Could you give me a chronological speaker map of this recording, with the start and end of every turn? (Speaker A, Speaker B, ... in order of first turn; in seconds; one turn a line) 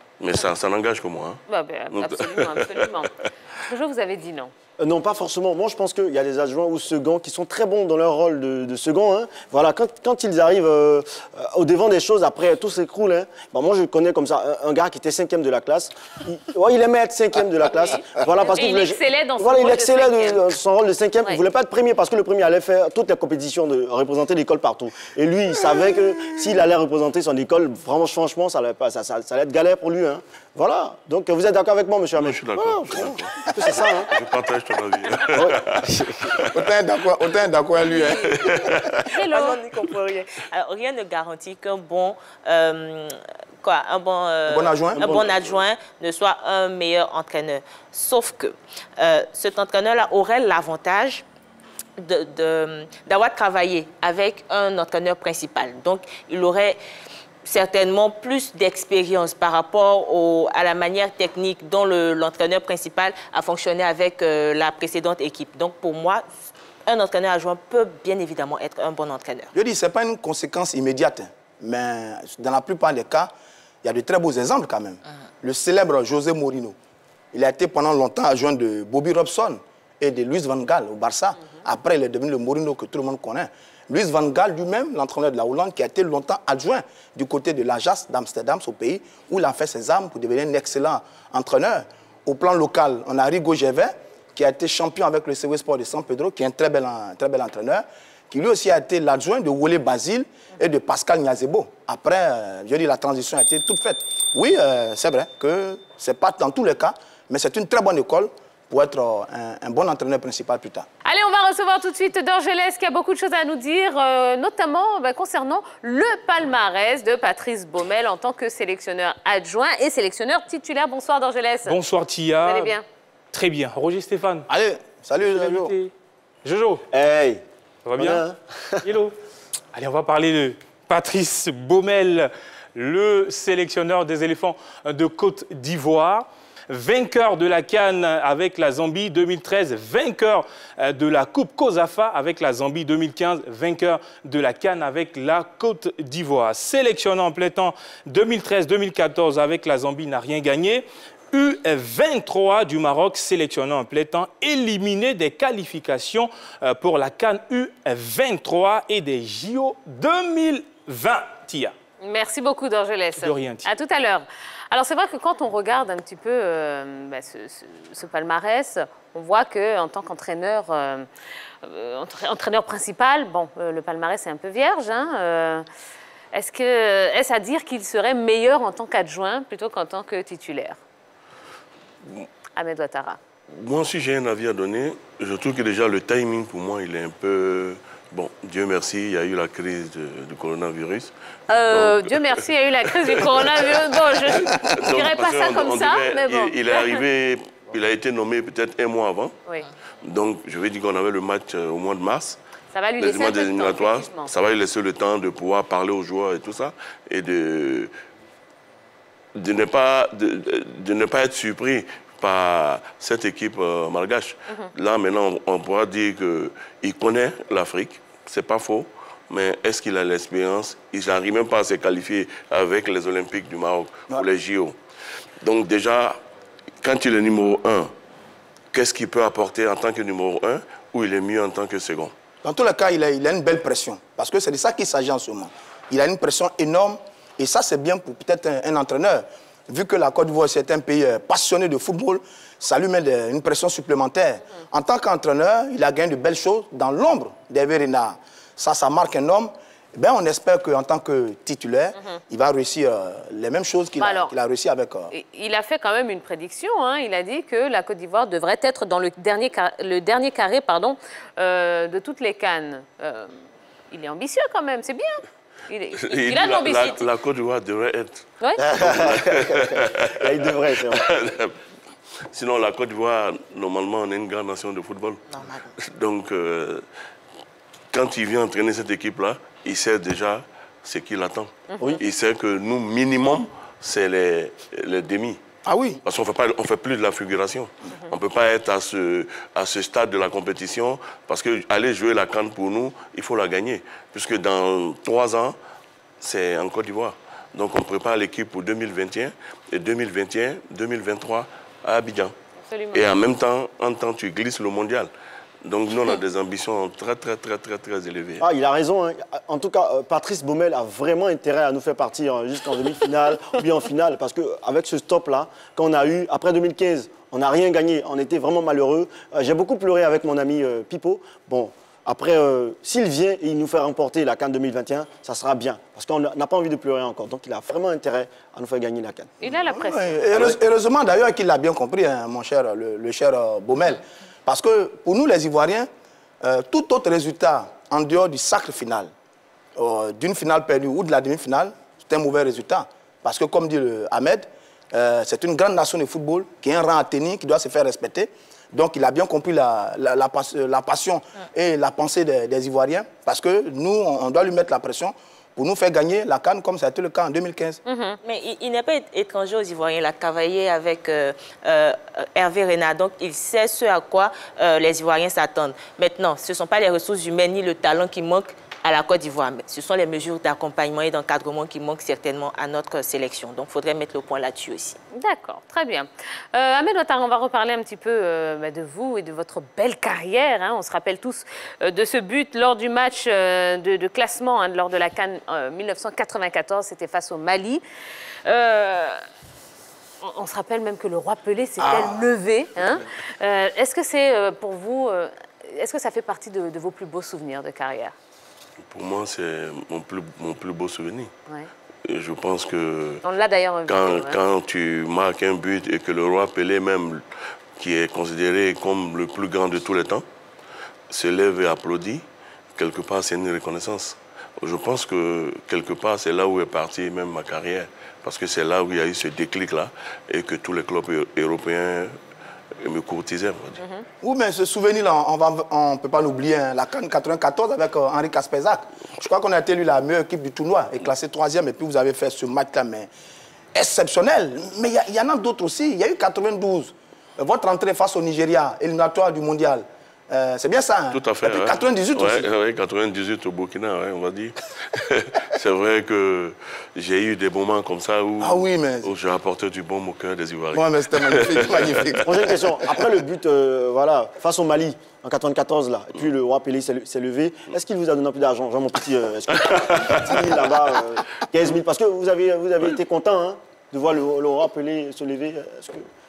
Speaker A: 0.2-2.9
Speaker B: 1.5-4.5
Speaker C: 4.8-34.1
Speaker B: 17.7-20.4
Speaker A: 32.1-36.6
Speaker C: 35.3-36.3
Speaker D: 36.5-38.6
Speaker E: 37.9-38.2
Speaker A: 38.3-39.0
Speaker E: 39.1-51.2
Speaker B: 39.1-39.6
Speaker D: 44.5-45.3
Speaker E: 52.0-56.8
Speaker E: 57.4-66.3
Speaker E: 66.8-69.5
Speaker D: 69.5-73.3
Speaker D: 73.8-76.8
Speaker D: 77.3-110.8
Speaker B: 111.0-121.8
Speaker F: 121.7-122.8
Speaker B: 122.4-122.8
Speaker F: 123.3-124.5
Speaker D: 124.5-125.7
Speaker F: 125.2-125.9
Speaker F: 126.4-126.8
Speaker C: 126.9-127.4
Speaker F: 127.8-128.2
Speaker C: 128.0-128.9
Speaker F: 128.8-129.1
Speaker F: 129.7-161.7
Speaker B: 162.0-171.1
Speaker F: 163.2-163.7
Speaker B: 171.6-175.6
Speaker B: 176.3-180.8
Speaker B: 182.6-183.2
Speaker A: 183.5-191.1
Speaker B: 191.5-197.0
Speaker A: 191.7-192.2
Speaker A: 193.1-193.5
Speaker A: 194.3-199.3
Speaker A: 200.0-202.4
Speaker B: 202.7-204.3
Speaker A: 203.0-207.9
Speaker A: 209.3-224.8
Speaker A: 225.4-226.2
Speaker A: 226.8-227.9
Speaker A: 228.7-232.1
Speaker D: 232.4-255.1
Speaker B: 254.0-254.3
Speaker B: 255.1-263.3
Speaker B: 263.9-267.1
Speaker A: 266.0-271.6
Speaker B: 268.4-268.6
Speaker C: 268.6-271.1
Speaker A: 272.3-275.2
Speaker E: 275.3-275.7
Speaker A: 275.8-276.8
Speaker A: 277.9-285.4
Speaker B: 281.7-282.0
Speaker D: 285.6-286.0
Speaker A: 286.0-295.6
Speaker A: 296.2-302.3
Speaker B: 302.6-303.1
Speaker A: 302.9-305.1
Speaker A: 305.6-308.5
Speaker C: 308.4-329.4
Speaker B: 329.4-330.6
Speaker D: 329.5-335.9
Speaker D: 336.4-339.1
Speaker D: 339.8-357.8
Speaker B: 357.9-358.2
Speaker E: 358.2-375.0
Speaker B: 375.1-387.8
Speaker B: 388.4-389.2
Speaker B: 390.2-398.1
Speaker D: 391.8-392.2
Speaker A: 398.9-401.3
Speaker A: 402.1-403.2
Speaker B: 403.2-404.4
Speaker A: 403.9-407.2
Speaker A: 407.8-410.2
Speaker A: 411.1-412.2
Speaker A: 412.8-422.1
Speaker A: 422.8-423.8
Speaker B: 423.8-424.0
Speaker D: 424.2-433.1
Speaker D: 433.7-442.5
Speaker A: 441.1-453.0
Speaker D: 448.4-449.1
Speaker D: 450.7-452.4
Speaker C: 452.2-466.1
Speaker A: 459.5-460.4